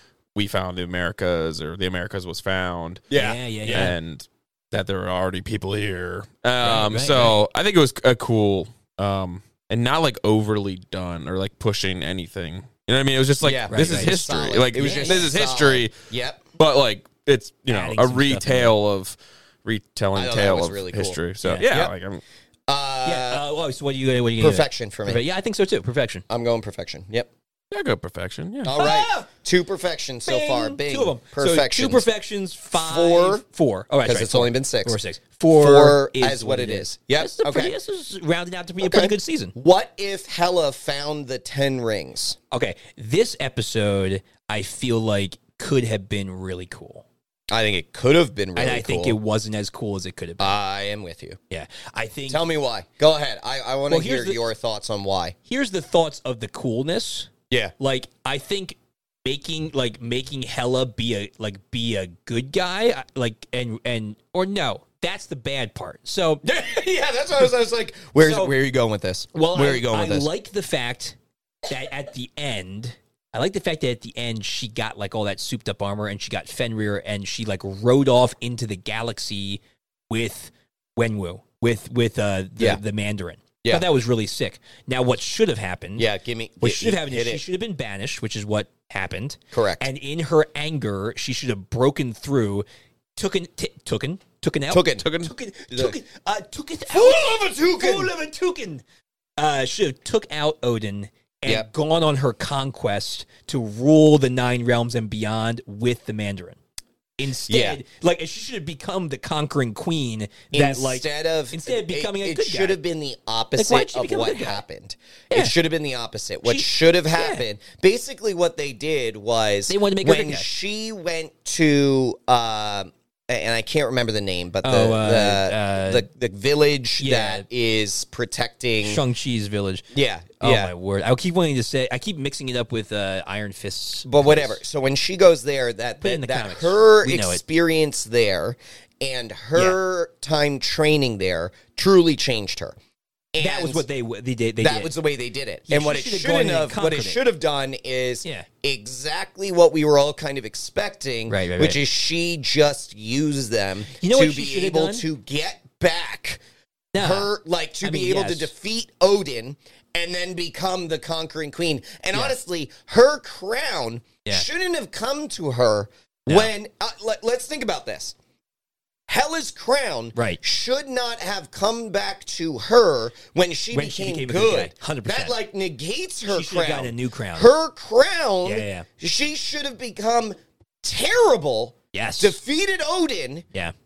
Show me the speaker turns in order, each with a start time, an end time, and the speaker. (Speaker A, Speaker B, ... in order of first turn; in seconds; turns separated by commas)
Speaker A: 0.3-3.0, Speaker B: 3.1-3.9, Speaker C: 3.1-3.9, Speaker A: 3.7-15.9, Speaker C: 6.6-7.4, Speaker B: 13.4-16.4, Speaker C: 13.7-14.2, Speaker C: 14.8-15.3, Speaker A: 16.6-22.2, Speaker C: 17.7-18.7, Speaker B: 20.1-21.9, Speaker B: 22.7-23.4, Speaker C: 23.0-26.2, Speaker B: 24.4-25.2, Speaker B: 26.3-27.3, Speaker A: 27.7-28.8, Speaker B: 28.6-32.0, Speaker C: 28.8-29.3, Speaker C: 30.2-39.5, Speaker B: 32.7-33.4, Speaker B: 34.0-35.0, Speaker B: 35.5-37.7, Speaker B: 38.8-42.4, Speaker C: 42.5-47.0, Speaker B: 47.5-49.2, Speaker C: 48.5-50.5, Speaker B: 50.4-51.4, Speaker C: 51.5-52.4, Speaker B: 52.3-55.4, Speaker C: 53.9-54.4, Speaker C: 55.5-66.4, Speaker B: 66.4-70.3, Speaker C: 68.2-68.5, Speaker C: 69.3-86.1, Speaker B: 86.0-87.4, Speaker C: 86.6-92.6, Speaker B: 89.5-89.8, Speaker C: 93.2-98.8, Speaker B: 94.7-96.0, Speaker B: 96.9-98.1, Speaker C: 99.4-106.6, Speaker C: 107.2-112.8, Speaker B: 107.5-107.8, Speaker B: 110.5-129.0, Speaker C: 113.5-114.6, Speaker C: 116.4-117.4, Speaker C: 119.7-120.5, Speaker C: 124.6-126.0, Speaker C: 127.0-127.5, Speaker C: 128.8-129.9, Speaker B: 129.9-130.7, Speaker C: 130.4-134.6, Speaker B: 134.0-142.7, Speaker C: 136.0-137.4, Speaker B: 143.3-143.8, Speaker C: 143.4-144.9, Speaker B: 144.6-156.4, Speaker C: 145.7-147.2, Speaker C: 151.3-151.8, Speaker C: 153.9-155.1, Speaker C: 156.9-157.3, Speaker B: 156.9-168.1, Speaker C: 157.8-158.5, Speaker C: 166.3-166.5, Speaker B: 169.1-183.4, Speaker C: 170.1-170.4, Speaker C: 173.7-175.3, Speaker C: 176.3-177.5, Speaker C: 178.4-178.9, Speaker C: 181.9-182.4